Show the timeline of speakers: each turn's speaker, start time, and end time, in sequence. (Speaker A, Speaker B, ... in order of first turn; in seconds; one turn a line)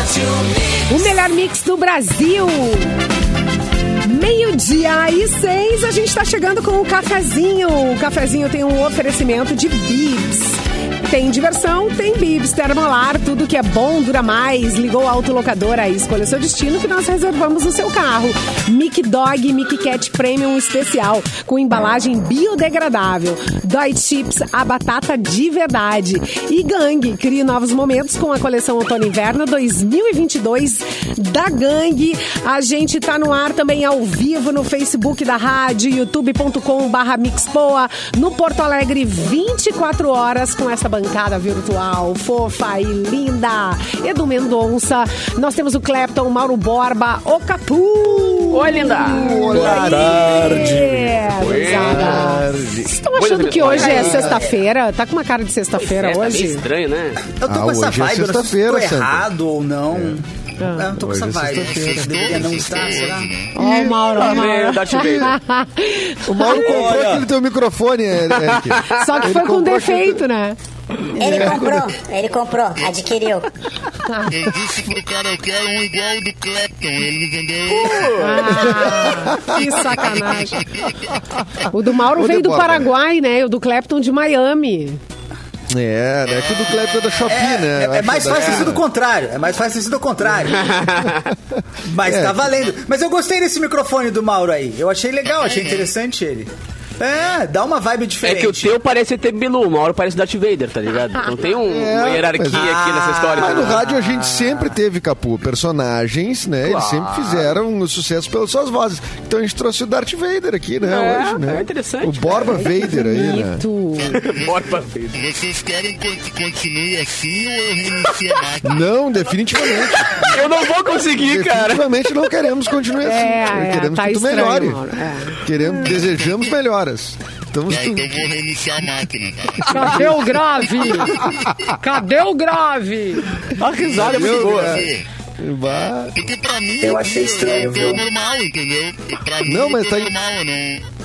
Speaker A: 0.9-3.0
Speaker A: 4.0-56.6
Speaker B: 48.5-49.9
Speaker C: 49.0-53.0
Speaker D: 49.5-51.0
Speaker B: 51.3-52.4
Speaker B: 53.1-54.4
Speaker C: 53.6-54.5
Speaker B: 55.8-57.2
Speaker D: 57.4-63.3
Speaker C: 57.5-59.3
Speaker C: 59.9-60.2
Speaker A: 60.6-60.9
Speaker C: 60.9-62.7
Speaker E: 61.7-63.5
Speaker A: 63.5-67.0
Speaker C: 63.6-64.3
Speaker B: 64.1-65.4
Speaker C: 66.2-70.2
Speaker D: 66.5-67.3
Speaker B: 68.3-69.0
Speaker A: 68.9-70.6
Speaker C: 71.2-71.9
Speaker F: 71.2-73.5
Speaker E: 74.3-78.9
Speaker B: 77.7-78.9
Speaker A: 78.2-80.6
Speaker C: 78.8-80.3
Speaker C: 81.6-82.9
Speaker A: 81.7-85.0
Speaker C: 85.7-88.8
Speaker E: 86.5-87.2
Speaker D: 87.3-90.8
Speaker B: 88.3-88.7
Speaker B: 90.5-91.3
Speaker C: 90.6-92.5
Speaker D: 91.8-98.7
Speaker B: 98.2-103.9
Speaker C: 101.5-113.7
Speaker B: 106.6-107.6
Speaker B: 110.8-112.6
Speaker A: 112.6-114.2
Speaker E: 114.0-119.7
Speaker B: 114.2-115.2
Speaker C: 118.6-120.1
Speaker B: 119.6-121.8
Speaker C: 121.2-124.8
Speaker A: 123.0-125.9
Speaker C: 125.3-128.3
Speaker E: 127.7-130.4
Speaker A: 129.7-133.3
Speaker B: 133.6-134.9
Speaker E: 133.8-135.1
Speaker C: 133.9-136.1
Speaker E: 136.1-140.8
Speaker D: 136.8-138.1
Speaker C: 139.4-140.1